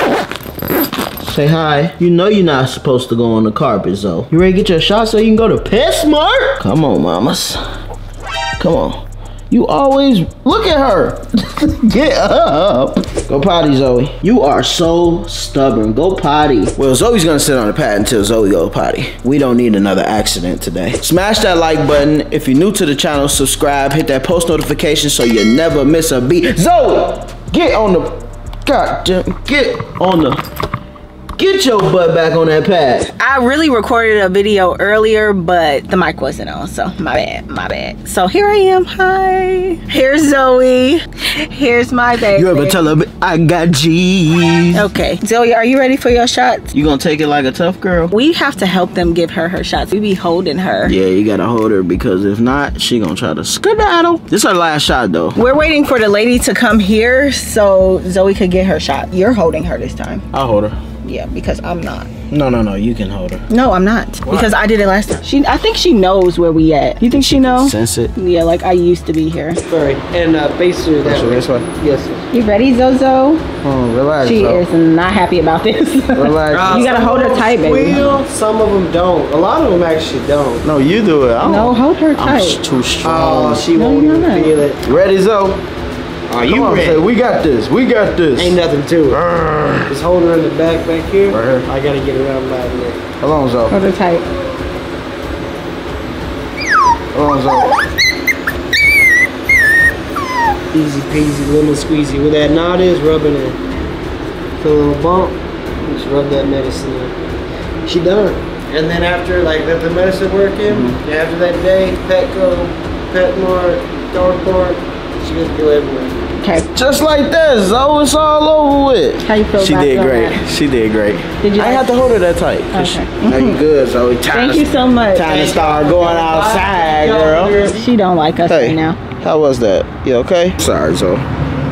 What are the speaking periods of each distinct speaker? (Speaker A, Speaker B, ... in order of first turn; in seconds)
Speaker A: 1.2-7.6, 8.6-30.4, 31.4-33.1, 42.3-44.9, 46.7-48.1, 50.8-55.4, 60.3-60.8, 62.3-63.4, 64.2-64.5, 67.1-68.1, 71.0-71.7, 73.6-74.6, 76.1-77.0, 80.6-83.7, 84.8-85.6, 86.4-88.6, 89.1-89.9, 91.3-91.7, 93.2-93.8, 97.1-97.8, 110.7-111.0, 116.7-127.7, 128.5-131.2
Speaker B: 33.1-42.9, 44.7-46.7, 48.1-51.0, 55.4-60.3, 61.0-62.1, 63.5-69.6, 72.3-73.4, 74.2-78.1, 81.4-82.6, 83.7-84.5, 93.7-94.2, 116.4-116.7, 119.2-120.4, 121.4-121.9, 122.7-123.6, 124.3-125.3, 127.7-129.0
Speaker C: 69.7-72.3, 76.5-80.7, 83.0-84.8, 86.3-87.0, 88.4-89.2, 89.9-93.0, 100.7-103.6, 104.6-107.2, 107.8-116.2, 125.2-127.8